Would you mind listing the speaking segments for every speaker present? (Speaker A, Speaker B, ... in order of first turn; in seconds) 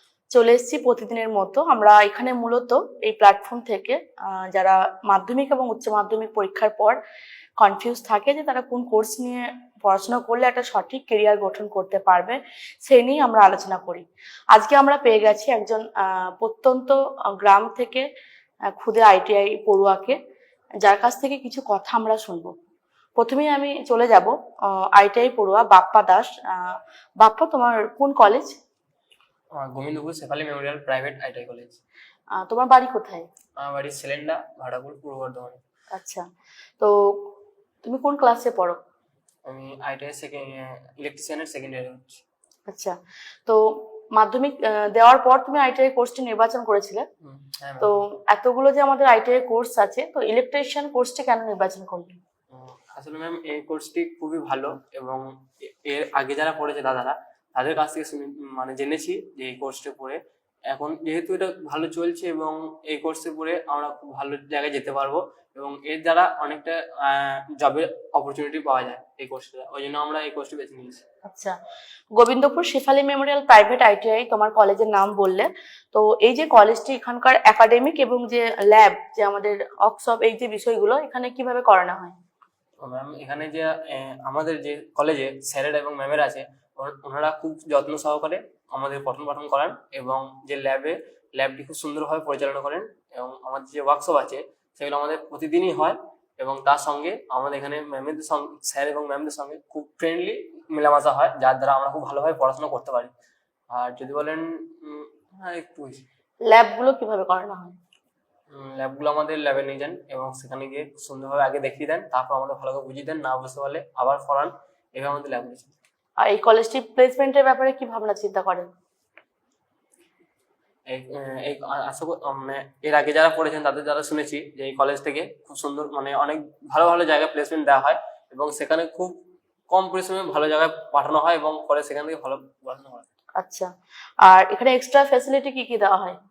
Speaker A: 0.3-7.0, 7.6-18.0, 18.7-20.2, 20.8-22.5, 23.2-28.5, 32.4-33.2, 35.9-36.2, 36.8-37.3, 37.8-38.8, 42.7-42.9, 43.5-47.0, 47.8-52.2, 71.2-71.5, 72.2-82.2, 106.5-107.8, 116.2-118.7, 133.4-133.7, 134.2-136.2
Speaker B: 29.5-31.8, 33.6-35.6, 39.5-42.2, 47.2-47.9, 52.5-60.2, 60.7-71.0, 82.8-103.1, 103.7-106.0, 108.5-115.7, 120.9-129.2, 129.7-133.1